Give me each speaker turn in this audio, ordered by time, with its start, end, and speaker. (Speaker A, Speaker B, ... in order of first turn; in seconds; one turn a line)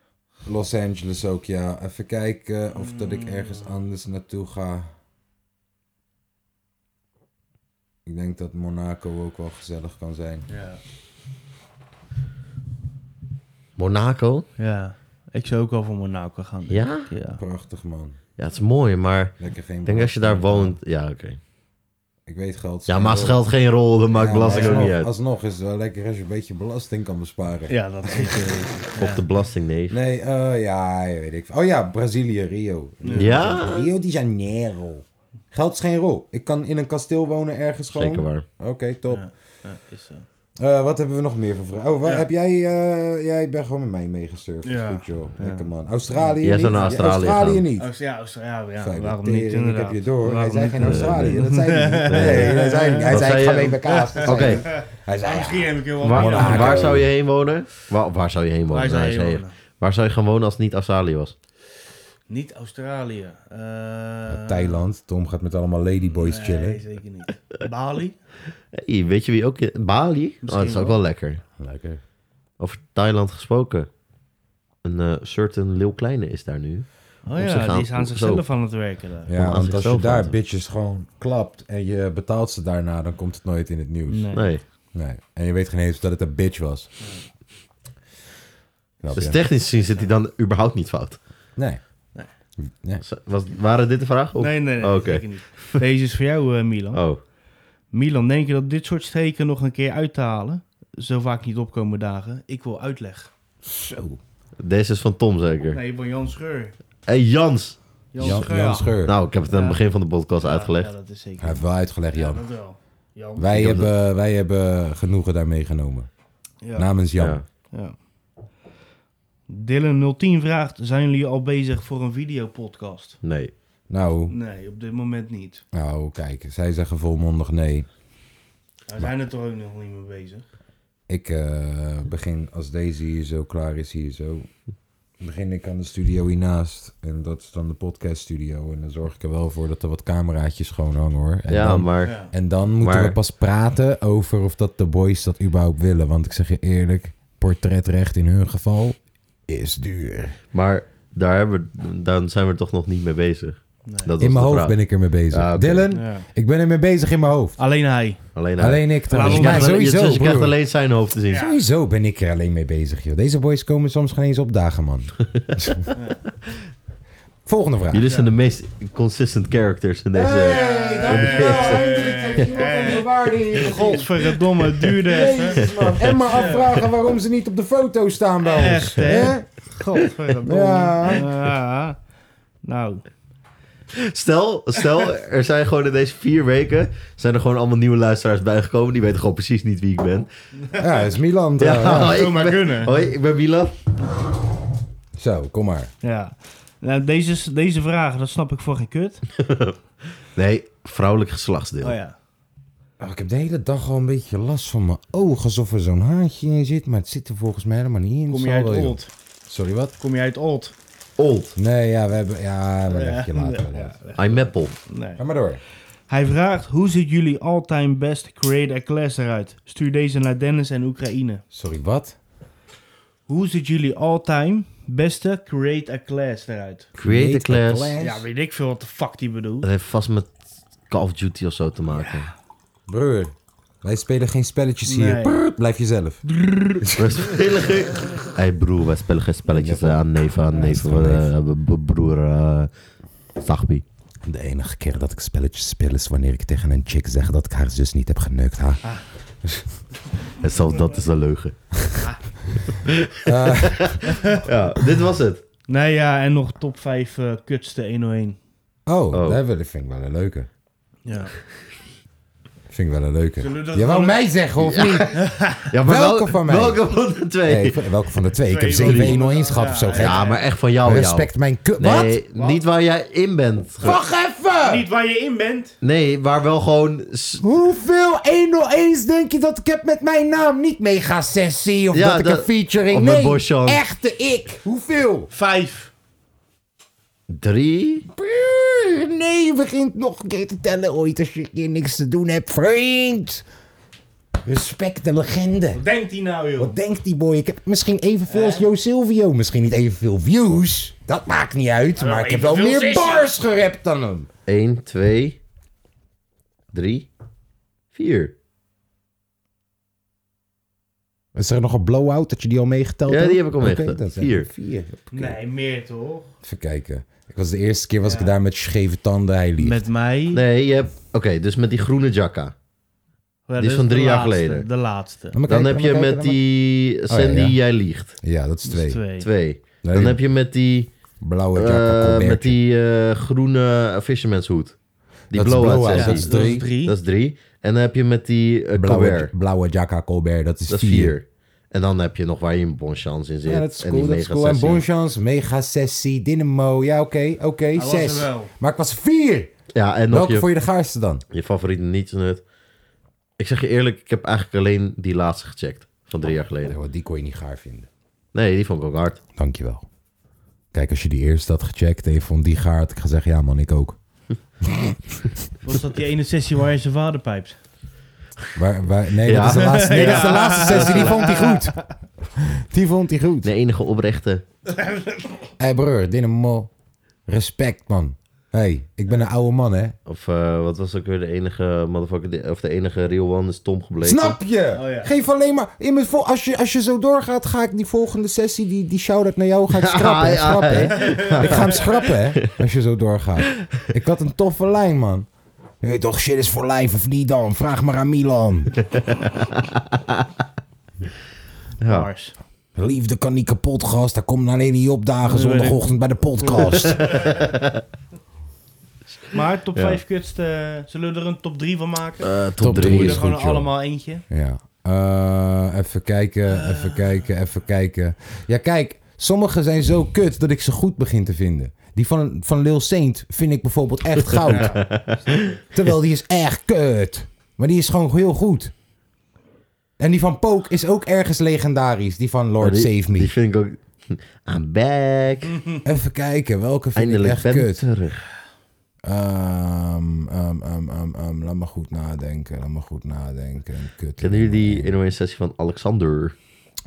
Speaker A: 0.5-4.9
Speaker B: 2.7-3.7
Speaker A: 8.1-10.5
Speaker B: 10.5-10.8
Speaker C: 13.8-14.5
Speaker B: 14.6-17.4
Speaker C: 16.7-17.1
Speaker A: 17.3-18.2
Speaker C: 18.4-21.4
Speaker A: 19.4-20.8
Speaker A: 22.3-23.4
Speaker C: 22.9-25.1
Speaker A: 24.1-28.4
Speaker B: 24.5-24.9
Speaker B: 27.7-29.2
Speaker C: 29.0-30.0
Speaker A: 29.9-39.2
Speaker B: 33.0-33.3
Speaker C: 33.1-33.9
Speaker C: 37.9-38.5
Speaker B: 39.1-40.3
Speaker A: 40.6-47.9
Speaker B: 44.6-47.0
Speaker C: 46.4-47.6
Speaker B: 47.8-53.3
Speaker A: 48.8-57.1
Speaker C: 50.8-51.4
Speaker C: 52.1-52.6
Speaker C: 53.1-54.6
Speaker B: 53.8-56.9
Speaker C: 56.0-61.4
Speaker B: 58.7-59.5
Speaker B: 62.3-64.8
Speaker A: 64.3-66.8
Speaker B: 66.1-68.2
Speaker C: 68.7-71.4
Speaker B: 70.4-71.0
Speaker A: 71.6-72.0
Speaker C: 72.6-73.9
Speaker C: 74.8-78.5
Speaker B: 77.3-79.3
Speaker A: 79.3-84.3
Speaker C: 79.4-80.3
Speaker B: 84.1-84.6
Speaker C: 84.3-84.6
Speaker A: 84.9-86.9
Speaker A: 89.0-89.4
Speaker B: 89.1-90.1
Speaker C: 89.2-91.2
Speaker A: 91.6-91.8
Speaker A: 92.6-93.0
Speaker C: 93.0-95.8
Speaker B: 94.4-97.0
Speaker C: 96.9-97.2
Speaker B: 97.9-103.3
Speaker A: 103.7-104.2
Speaker C: 104.6-105.8
Speaker B: 105.7-106.7
Speaker C: 107.1-108.4
Speaker B: 108.1-108.9
Speaker A: 108.2-109.1
Speaker C: 109.0-110.9
Speaker B: 109.5-109.8
Speaker B: 110.4-113.7
Speaker A: 111.4-112.4
Speaker A: 113.4-116.1
Speaker C: 113.5-113.9
Speaker B: 116.6-116.9
Speaker A: 116.8-117.4
Speaker C: 117.2-117.4
Speaker B: 119.5-123.2
Speaker C: 123.2-123.5
Speaker A: 123.9-124.3
Speaker B: 124.3-125.6
Speaker A: 125.7-127.9
Speaker B: 128.9-130.4
Speaker A: 131.1-134.5
Speaker A: 135.2-150.4
Speaker C: 141.5-143.2
Speaker B: 142.0-142.3
Speaker C: 150.5-155.9
Speaker B: 153.8-154.1
Speaker A: 154.2-157.6
Speaker B: 155.9-156.3
Speaker B: 157.6-158.3
Speaker C: 158.3-161.5
Speaker A: 158.6-160.6
Speaker B: 159.1-159.8
Speaker B: 161.3-161.6
Speaker A: 161.3-165.9
Speaker A: 167.5-168.0
Speaker C: 167.9-171.9
Speaker A: 170.1-174.1
Speaker B: 170.3-175.6
Speaker A: 175.0-179.5
Speaker C: 175.6-176.8
Speaker B: 176.3-176.7
Speaker B: 178.4-182.0
Speaker A: 180.4-181.3
Speaker B: 182.6-183.1
Speaker C: 184.0-190.3
Speaker B: 190.6-191.0
Speaker A: 190.8-192.2
Speaker C: 191.6-193.7
Speaker B: 191.9-193.0
Speaker A: 195.2-195.9
Speaker B: 196.0-199.2
Speaker C: 199.4-199.7
Speaker C: 200.3-202.0
Speaker B: 201.8-202.2
Speaker A: 203.0-209.9
Speaker B: 208.3-209.1
Speaker B: 210.0-210.7
Speaker C: 211.2-211.6
Speaker A: 211.6-214.0
Speaker B: 212.9-215.2
Speaker C: 214.2-214.7
Speaker A: 215.2-215.6
Speaker B: 216.1-221.4
Speaker A: 221.5-222.2
Speaker B: 223.3-226.9
Speaker C: 227.0-227.9
Speaker A: 227.0-228.3
Speaker B: 228.0-229.7
Speaker C: 229.6-230.3
Speaker C: 230.9-232.3
Speaker B: 231.9-232.3
Speaker A: 232.9-237.0
Speaker B: 234.9-235.4
Speaker C: 236.9-242.7
Speaker A: 239.5-240.0
Speaker A: 240.5-241.3
Speaker C: 243.4-243.8
Speaker A: 244.2-248.8
Speaker C: 250.4-251.6
Speaker C: 252.9-255.4
Speaker A: 253.2-254.0
Speaker B: 254.1-254.4
Speaker B: 255.7-258.4
Speaker A: 258.9-260.5
Speaker C: 259.1-259.4
Speaker B: 261.1-261.3
Speaker A: 262.7-265.2
Speaker B: 263.4-264.2
Speaker C: 264.6-267.8
Speaker B: 265.2-265.7
Speaker A: 265.8-266.8
Speaker A: 267.4-270.2
Speaker B: 268.4-270.4
Speaker C: 268.8-269.2
Speaker C: 269.9-274.0
Speaker A: 270.8-272.2
Speaker B: 272.4-272.6
Speaker A: 273.8-274.9
Speaker B: 274.6-275.8
Speaker C: 275.8-277.4
Speaker A: 277.4-285.3
Speaker C: 281.9-283.8
Speaker B: 285.3-285.9
Speaker C: 287.3-288.1
Speaker A: 288.1-293.4
Speaker A: 294.4-295.8
Speaker B: 295.7-296.8
Speaker A: 296.6-304.3
Speaker B: 298.3-298.7
Speaker B: 302.0-303.3
Speaker C: 304.5-305.4
Speaker C: 306.7-307.1
Speaker C: 307.9-308.3
Speaker A: 311.4-315.4
Speaker C: 313.1-314.5
Speaker B: 315.1-316.3
Speaker A: 316.4-319.8
Speaker B: 318.0-318.3
Speaker B: 319.6-320.4
Speaker C: 320.3-322.5
Speaker B: 323.5-325.4
Speaker C: 323.6-324.7
Speaker A: 325.3-326.4
Speaker C: 325.5-328.1
Speaker A: 327.1-327.6
Speaker A: 328.2-329.0
Speaker B: 328.6-329.3
Speaker C: 329.2-330.9
Speaker A: 329.8-330.2
Speaker A: 331.2-332.6
Speaker C: 331.5-334.8
Speaker C: 335.3-339.3
Speaker A: 335.3-336.7
Speaker B: 335.9-337.0
Speaker A: 338.8-341.1
Speaker C: 340.7-344.9
Speaker A: 343.5-349.5
Speaker B: 347.8-348.5
Speaker C: 349.7-350.5
Speaker A: 350.1-351.2
Speaker C: 351.3-352.4
Speaker C: 353.4-356.8
Speaker A: 356.7-357.9
Speaker C: 358.3-359.2
Speaker A: 359.4-359.9
Speaker A: 360.7-364.0
Speaker A: 364.6-365.0
Speaker B: 365.6-367.6
Speaker A: 368.6-371.8
Speaker C: 369.3-371.1
Speaker B: 369.5-371.7
Speaker A: 372.4-373.5
Speaker C: 373.4-374.4
Speaker B: 374.7-375.5
Speaker A: 375.6-376.7
Speaker A: 377.3-380.0
Speaker C: 380.1-384.4
Speaker A: 384.0-395.3
Speaker B: 384.7-385.1
Speaker C: 389.7-392.1
Speaker B: 391.0-391.4
Speaker A: 395.8-398.7
Speaker C: 398.9-399.3
Speaker C: 401.8-402.1
Speaker B: 401.9-402.3
Speaker A: 402.8-407.2
Speaker B: 405.2-407.4
Speaker C: 406.9-407.8
Speaker B: 409.3-414.2
Speaker C: 412.2-413.2
Speaker A: 412.6-413.7
Speaker A: 414.3-424.8
Speaker B: 416.5-417.1
Speaker C: 424.3-425.4
Speaker B: 424.5-425.4
Speaker A: 425.7-428.7
Speaker A: 430.0-433.3
Speaker C: 432.6-435.6
Speaker B: 435.5-435.8
Speaker A: 435.8-437.8
Speaker C: 437.0-438.2
Speaker A: 439.0-444.9
Speaker C: 444.2-446.4